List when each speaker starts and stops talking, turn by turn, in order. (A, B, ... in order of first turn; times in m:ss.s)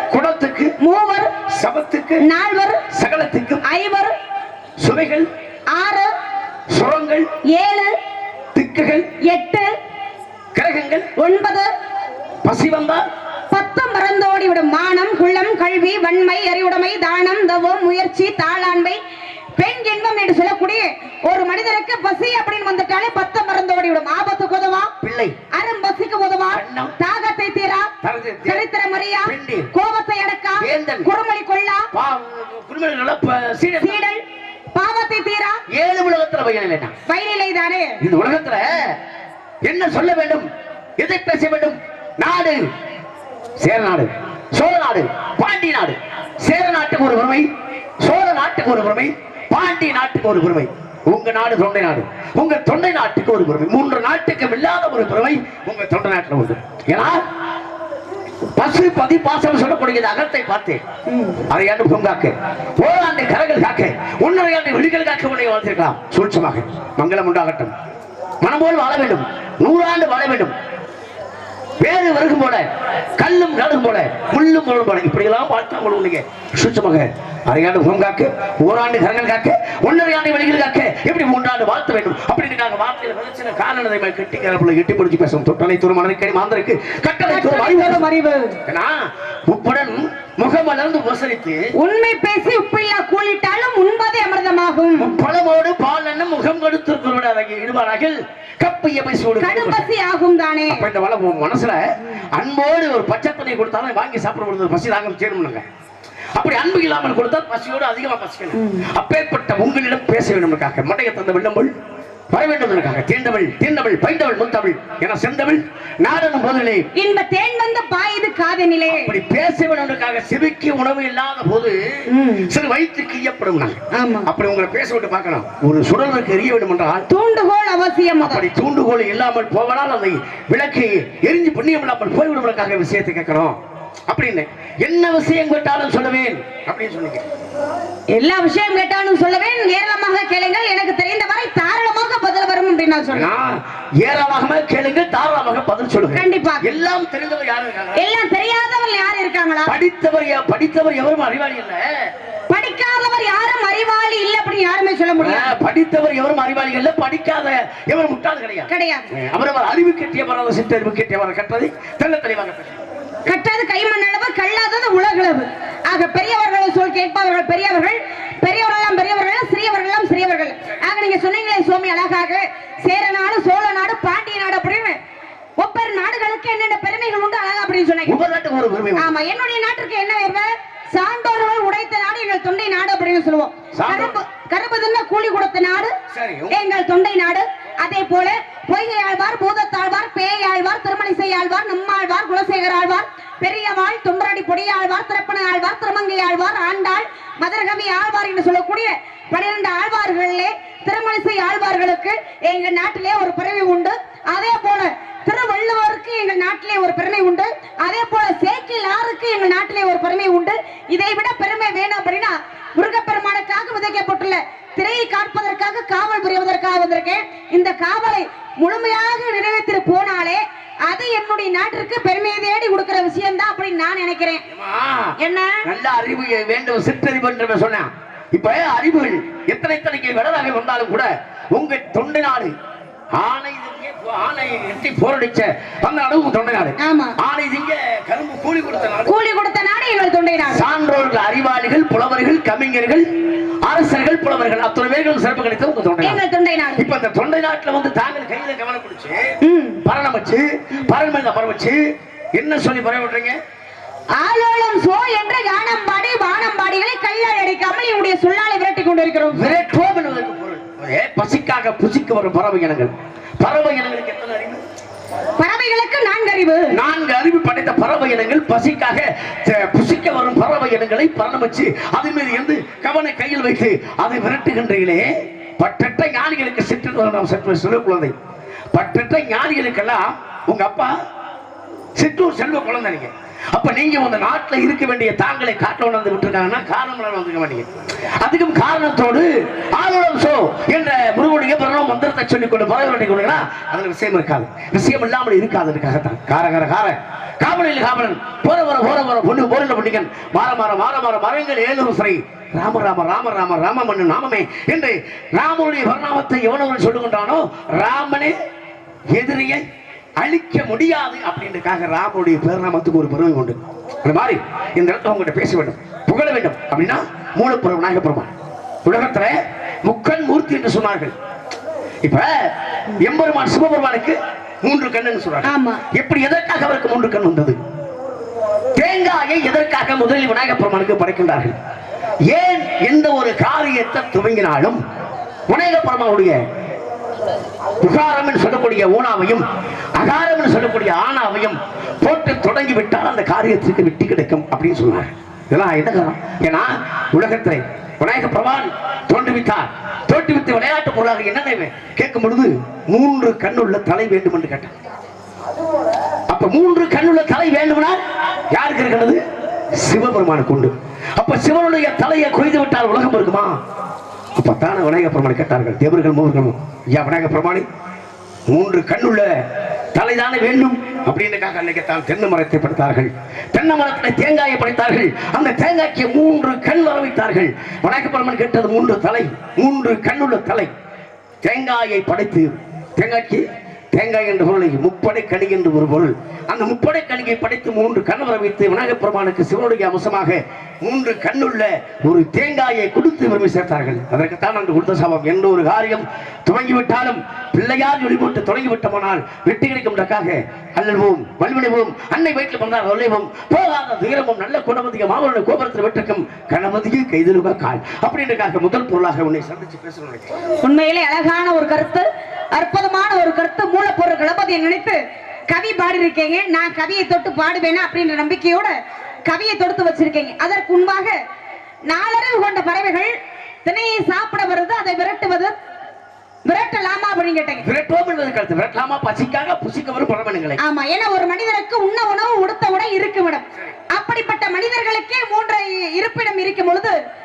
0:00.1-0:00.7 A
0:00.8-0:01.3 B
0:01.5-0:02.2 A
0:02.2-0:02.9 B
0:02.9-0:03.6 A
0:03.6-0:04.1 B
0:04.8-0:05.3 A
0:05.7-0:06.1 B
0:06.7-0:07.3 A
0:07.5-0:07.9 B
0:08.5-0:09.1 A
0:09.2-0:09.7 B
0:10.5-0:11.1 A
0:11.2-0:11.7 B
0:12.4-0:13.0 A
0:13.5-0:19.0 B
0:19.6-0:24.9 B
0:25.0-0:25.4 A
0:25.5-0:27.9 B
0:26.5-0:27.0 A
0:28.0-0:28.6 A
0:28.4-0:31.9 B
0:29.2-0:29.7 A
0:30.6-0:31.1 A
0:31.9-0:34.0 A
0:33.8-0:34.2 B
0:34.7-0:35.6 B
0:35.7-0:36.9 A
0:37.1-0:38.0 B
0:38.0-0:39.0 A
0:39.6-0:40.5 A
0:41.0-0:42.7 A
0:43.6-0:47.5 A
0:48.0-0:57.2 A
0:58.6-1:00.8 A
1:01.1-1:01.4 B
1:01.4-1:07.7 A
1:08.4-1:10.5 A
1:11.8-1:12.6 A
1:13.2-1:28.0 A
1:27.3-1:28.6 B
1:28.7-1:31.6 A
1:31.8-1:35.1 B
1:35.0-1:39.9 A
1:39.4-1:40.8 B
1:40.7-1:45.6 A
1:46.4-1:51.7 A
1:48.5-1:48.9 B
1:52.3-1:56.9 A
1:56.9-1:59.1 B
1:58.9-2:07.1 A
2:02.1-2:02.5 B
2:03.9-2:04.3 B
2:07.1-2:08.5 B
2:08.2-2:13.6 A
2:14.1-2:17.2 A
2:18.1-2:23.3 B
2:23.1-2:28.1 A
2:26.1-2:26.7 B
2:28.0-2:29.7 B
2:29.6-2:31.9 A
2:32.5-2:35.6 B
2:35.2-2:42.8 A
2:38.7-2:39.1 B
2:43.3-2:55.0 B
2:55.6-2:58.2 B
2:58.0-2:59.1 A
2:59.0-3:05.9 B
3:03.7-3:04.2 A
3:06.1-3:06.7 A
3:06.5-3:44.4 B
3:44.5-3:52.5 A
3:45.2-3:45.6 B
3:53.2-3:59.1 A
3:56.8-3:57.2 B
3:59.0-4:00.6 B
4:00.4-4:03.1 A
4:03.6-4:06.2 A
4:06.0-4:06.9 B
4:06.8-4:11.8 A
4:09.4-4:09.8 B
4:12.3-4:13.4 A
4:14.2-4:19.6 B
4:19.3-4:24.6 A
4:25.4-4:26.8 B
4:26.7-4:38.1 A
4:38.7-4:40.9 A
4:42.0-4:47.7 A
4:48.2-5:08.4 A
5:09.1-5:09.6 A
5:10.2-5:18.3 A
5:18.8-5:21.1 A
5:22.0-5:27.6 A
5:25.4-5:25.8 B
5:28.8-5:31.6 A
5:32.3-5:34.8 A
5:35.5-5:36.4 A
5:37.8-5:39.4 A
5:40.0-5:54.7 A
5:56.3-5:59.2 A
5:59.8-6:03.6 A
6:04.4-6:07.6 A
6:08.5-6:09.4 A
6:09.9-6:20.7 A
6:21.4-6:50.3 A
6:50.6-7:01.2 B
7:01.9-7:03.1 B
7:03.6-7:05.5 B
7:06.4-7:07.6 B
7:07.6-7:10.6 A
7:10.6-7:17.0 B